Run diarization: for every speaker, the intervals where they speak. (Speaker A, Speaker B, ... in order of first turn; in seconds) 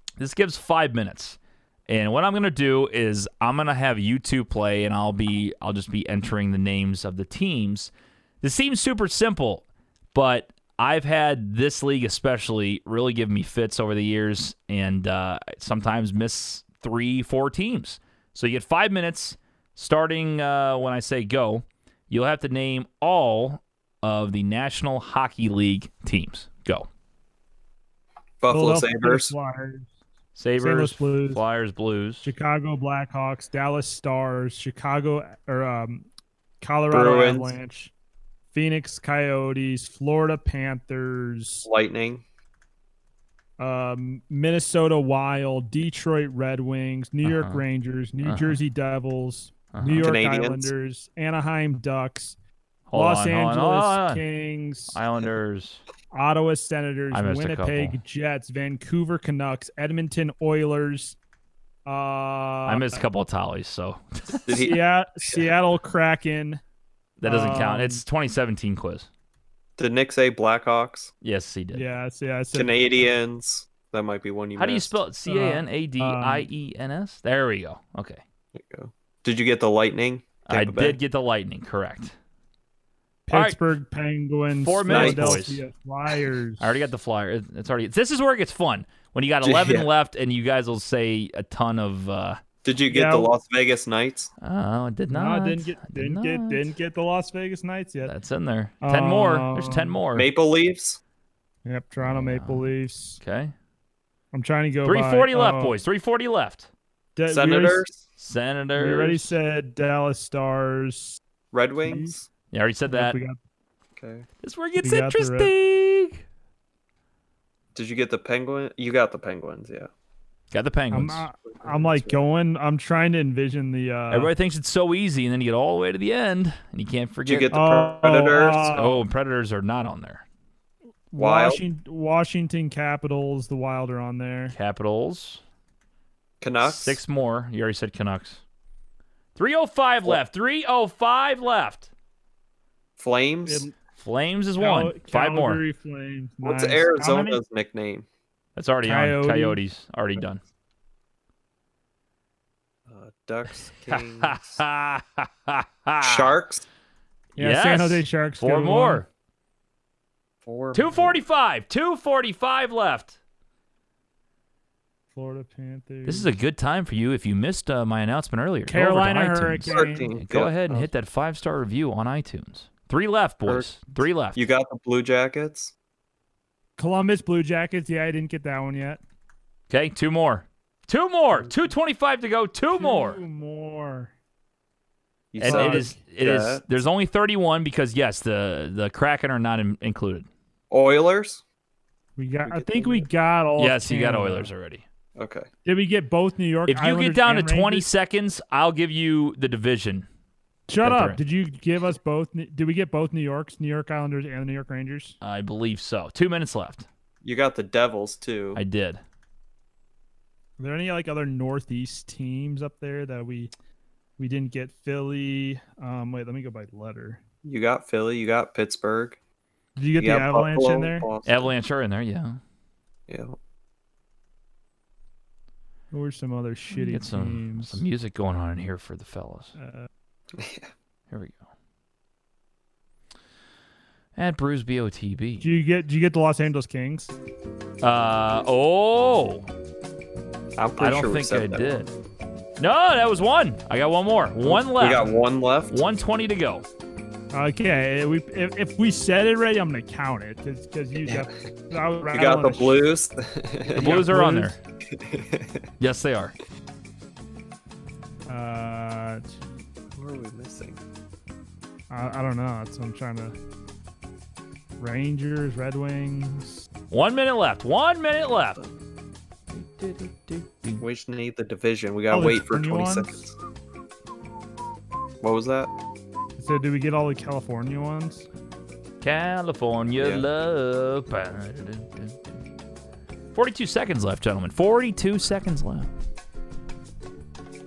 Speaker A: 0.2-26.9, 30.4-32.3, 47.2-47.6, 48.2-48.6, 49.7-50.1, 52.9-54.2, 54.9-55.8, 57.1-58.0, 62.6-64.6, 67.2-69.1, 71.2-71.8, 74.5-78.2, 80.5-82.1, 83.3-83.6, 84.6-85.6, 86.6-92.4, 94.4-96.7, 98.0-100.3, 102.0-103.5, 104.8-106.7, 108.2-109.3, 112.5-113.2, 114.4-116.2, 120.5-121.2, 124.1-127.5, 128.7-130.2, 134.5-135.4, 136.6-138.4, 139.3-141.9, 144.0-145.6, 148.6-150.4, 153.9-156.3, 157.4-159.1, 160.7-163.2, 166.1-174.4, 179.7-183.2, 185.4-190.3, 193.6-194.8, 196.7-200.1, 200.8-201.2, 205.2-206.9, 208.5-209.0, 221.2-222.4, 226.7-229.5, 231.1-231.4, 234.2-235.5, 237.8-239.5, 240.8-241.9, 242.6-245.2, 245.7-246.7, 253.7-254.6, 255.8-256.3, 266.9-268.6, 269.5-270.8, 279.0-282.2, 283.3-285.9
Speaker B: 28.4-29.3, 36.9-37.5, 41.6-42.2, 50.0-50.7, 64.4-65.4, 69.8-71.1, 72.5-75.0, 78.5-81.0, 84.9-85.4, 89.4-89.9, 92.6-94.3, 100.1-101.0, 107.3-108.0, 111.5-112.3, 114.0-114.3, 117.7-119.9, 121.5-122.2, 127.2-128.8, 131.2-131.6, 136.4-137.0, 143.0-143.7, 146.4-148.1, 152.9-154.6, 156.0-156.6, 160.4-161.2, 169.7-170.9, 173.4-173.8, 174.3-175.7, 185.3-186.6, 190.7-191.4, 192.4-193.1, 195.2-195.5, 207.2-208.6, 217.4-219.2, 220.0-221.5, 223.1-223.4, 230.4-230.7, 240.6-241.7, 244.4-245.8, 252.1-254.2, 254.9-255.6, 259.9-260.8, 270.8-273.3, 275.2-275.7, 280.0-280.2
Speaker C: 28.5-29.9, 30.6-31.4, 32.2-36.0, 36.6-37.9, 38.5-41.7, 43.6-52.4, 52.9-55.0, 56.1-61.2, 61.9-63.0, 64.5-66.6, 67.2-68.0, 71.7-73.0, 75.2-76.5, 83.3-86.7, 92.9-93.3, 95.1-98.1, 98.8-100.0, 101.7-103.2, 104.3-105.7, 107.2-107.8, 108.7-111.2, 111.8-112.1, 112.9-113.4, 114.8-115.5, 120.9-124.3, 127.5-129.0, 131.1-134.5, 143.4-143.7, 144.6-147.4, 148.8-149.6, 157.3-159.0, 165.1-166.3, 168.7-170.1, 176.8-179.0, 182.7-184.1, 185.4-185.9, 192.2-194.5, 195.6-197.9, 200.7-205.2, 210.6-213.5, 214.2-217.2, 219.8-221.1, 225.9-227.8, 229.6-229.9, 235.4-237.1, 247.3-252.9, 253.7-254.5, 258.3-259.3, 261.9-263.3, 264.8-266.6, 272.1-273.2, 276.4-278.3